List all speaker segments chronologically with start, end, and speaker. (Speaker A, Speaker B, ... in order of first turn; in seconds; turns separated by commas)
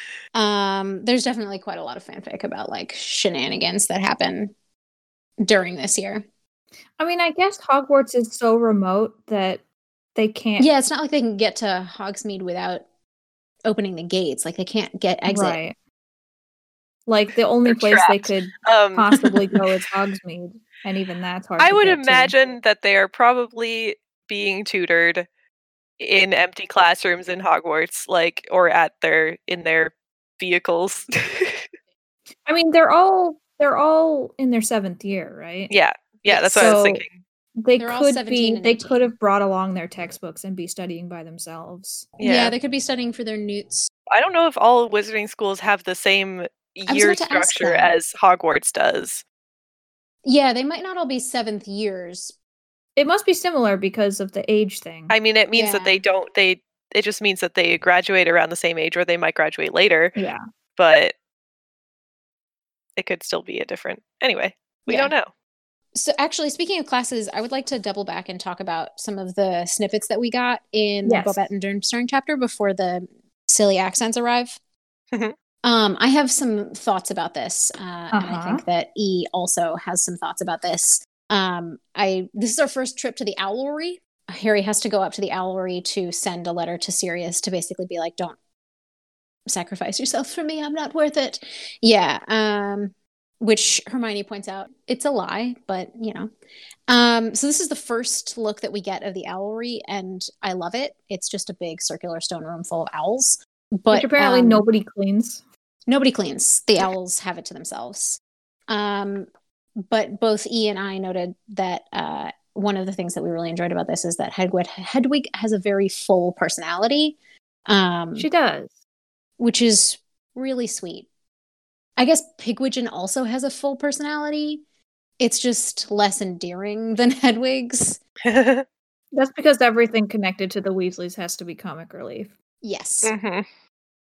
Speaker A: 0.3-4.5, Speaker A: 5.4-6.2, Speaker B: 7.0-9.6, Speaker B: 10.1-10.7, Speaker A: 10.6-12.8, Speaker A: 13.6-15.6, Speaker B: 15.3-15.7, Speaker B: 17.1-22.3, Speaker C: 17.6-19.6, Speaker C: 21.6-25.2, Speaker C: 26.0-31.6, Speaker B: 32.5-35.7, Speaker C: 35.7-37.2, Speaker A: 36.3-36.7, Speaker B: 36.5-37.0, Speaker B: 37.6-42.1, Speaker A: 37.8-39.1, Speaker C: 42.2-42.5, Speaker A: 42.2-43.9, Speaker C: 44.1-49.2, Speaker A: 46.9-47.9, Speaker A: 50.2-52.3, Speaker B: 53.0-55.1, Speaker C: 55.1-60.1, Speaker A: 55.5-56.0, Speaker B: 60.1-60.4, Speaker C: 60.8-61.1, Speaker C: 63.0-65.3, Speaker A: 64.9-65.1, Speaker A: 65.9-74.6, Speaker B: 71.0-71.5, Speaker A: 75.6-88.4, Speaker B: 78.1-78.6, Speaker A: 89.5-96.3, Speaker A: 96.9-104.6, Speaker B: 103.9-105.4, Speaker A: 105.9-109.3, Speaker A: 109.8-118.3, Speaker B: 118.2-118.7, Speaker A: 119.4-121.1, Speaker A: 122.0-124.6, Speaker A: 125.2-128.0, Speaker C: 128.2-128.6, Speaker B: 129.1-132.3, Speaker A: 132.6-133.1, Speaker C: 133.0-133.4